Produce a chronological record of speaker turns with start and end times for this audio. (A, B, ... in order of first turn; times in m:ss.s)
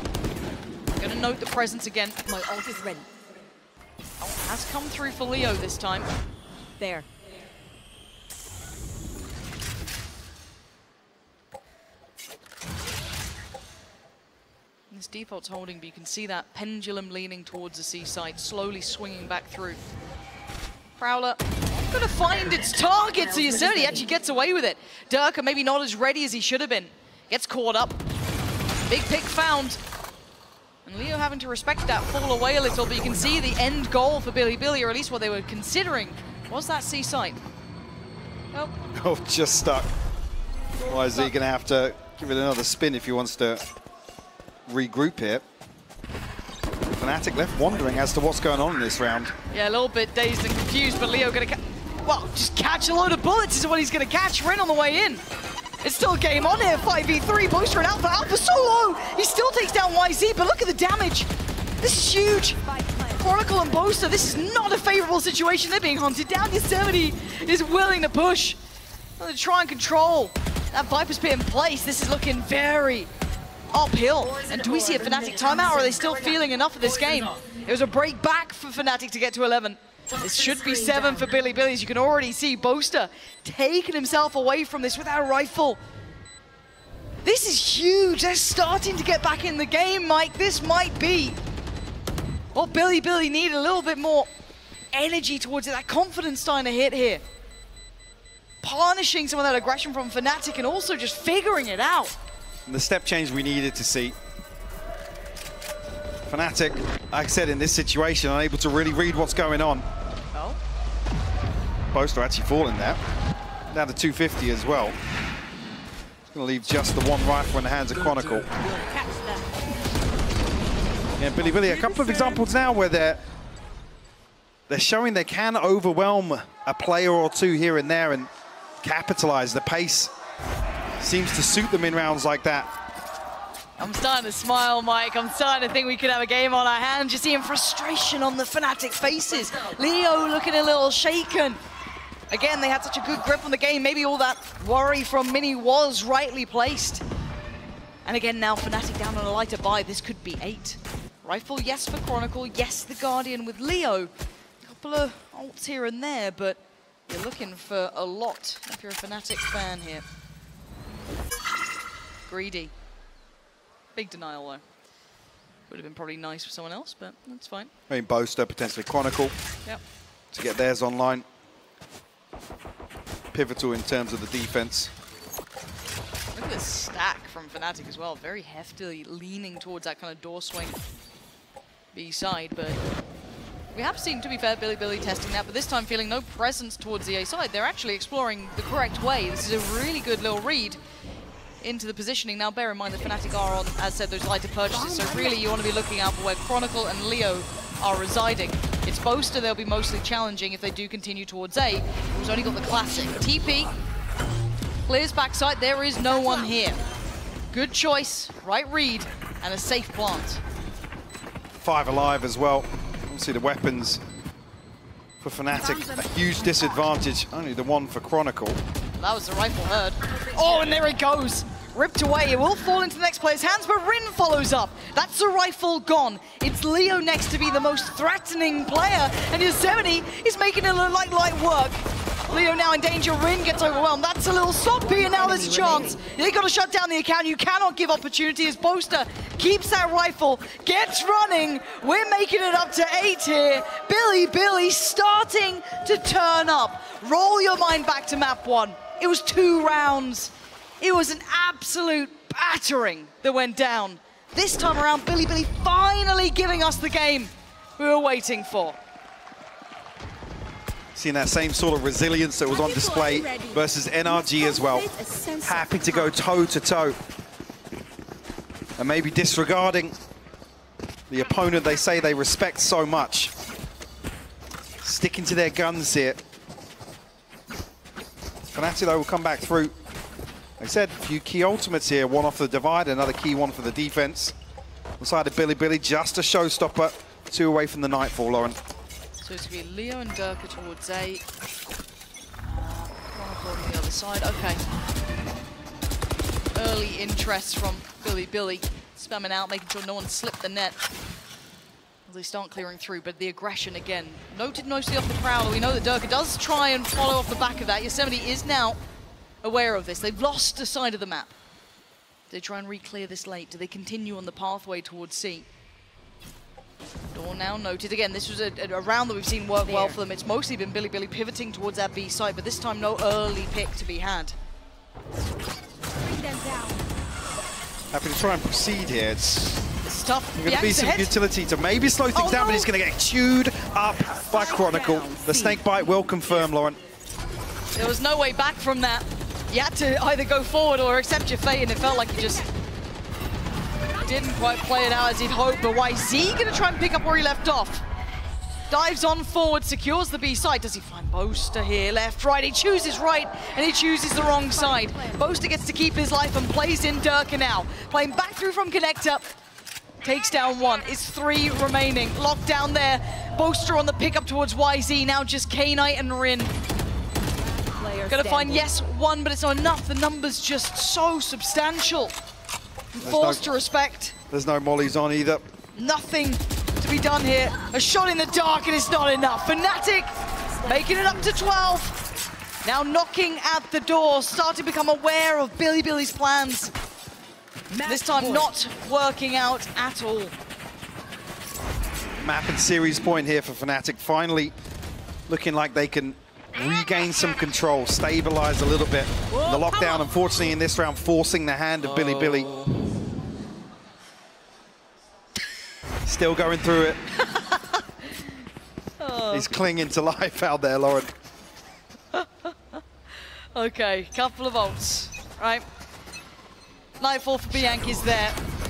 0:01.0-0:02.2 A
0:02.2-0:03.1 B
0:04.2-0:06.1 A
0:06.8-0:07.1 B
0:14.9-0:19.8 A
0:21.0-0:28.0 A
0:23.3-0:24.1 B
0:28.9-0:29.8 A
0:30.8-0:37.4 A
0:38.9-0:39.9 C
0:40.8-0:43.6 C
0:44.7-0:45.4 C
0:46.9-0:49.3 C
0:49.5-0:55.2 A
0:55.8-1:01.3 A
1:01.8-1:02.6 A
1:02.6-1:03.6 B
1:03.2-1:08.6 A
1:09.2-1:13.1 A
1:13.7-1:25.8 A
1:14.2-1:16.3 B
1:20.2-1:21.3 B
1:27.2-1:31.4 A
1:32.5-1:34.3 A
1:34.9-1:37.2 A
1:38.6-1:42.1 A
1:42.7-1:44.2 C
1:46.3-1:49.8 C
1:50.3-1:50.6 A
1:51.9-1:53.0 C
1:53.7-1:55.0 C
1:56.3-1:58.6 C
1:58.8-1:59.4 B
2:01.2-2:03.2 C
2:01.7-2:02.4 B
2:04.7-2:08.3 C
2:08.8-2:10.1 C
2:11.0-2:12.7 C
2:13.8-2:21.6 A
2:22.3-2:27.0 A
2:28.0-2:34.1 A
2:34.6-2:40.0 A
2:42.2-2:42.7 A
2:43.9-2:44.6 A
2:45.7-2:47.7 A
2:47.9-2:49.3 C
2:50.3-2:51.2 C
2:53.3-2:54.9 C
2:56.3-3:00.8 A
3:01.9-3:02.8 A
3:03.7-3:10.8 A
3:11.6-3:23.7 A
3:14.9-3:15.2 B
3:24.9-3:26.8 A
3:27.5-3:30.4 A
3:31.6-3:34.0 C
3:35.2-3:38.6 C
3:35.6-3:36.0 B
3:39.0-4:18.8 A
3:54.8-3:56.0 B
4:20.9-4:27.0 C
4:22.5-4:26.0 B
4:28.8-4:29.9 C
4:31.1-4:33.3 C
4:34.8-4:36.2 C
4:38.5-4:39.7 C
4:40.6-4:44.3 C
4:45.0-4:48.6 C
4:49.2-4:51.2 A
4:52.4-4:54.6 A
4:56.5-5:00.8 A
5:02.0-5:08.8 A
5:09.4-5:11.3 A
5:12.3-5:15.5 A
5:17.1-5:24.4 A
5:19.6-5:20.0 B
5:26.0-5:26.8 B
5:27.9-5:29.6 C
5:29.8-5:31.1 A
5:30.4-5:36.8 C
5:32.2-5:32.7 A
5:34.3-5:35.6 B
5:37.7-5:42.5 A
5:44.0-5:47.8 A
5:48.7-5:59.3 A
5:54.7-5:55.2 B
6:00.0-6:06.5 A
6:07.6-6:08.7 B
6:08.1-6:12.1 A
6:13.0-6:14.2 A
6:13.0-6:13.5 C
6:14.3-6:15.4 C
6:15.7-6:20.1 A
6:20.6-6:22.0 A
6:20.6-6:21.2 B
6:22.6-6:26.7 A
6:27.7-6:28.5 B
6:27.8-6:30.3 A
6:32.2-6:34.5 C
6:35.3-6:42.5 C
6:39.3-6:40.0 B
6:46.0-6:47.0 C
6:47.1-6:48.4 A
6:49.0-6:49.5 A
6:49.3-6:51.1 C
6:52.1-6:55.6 A
6:57.0-6:58.4 A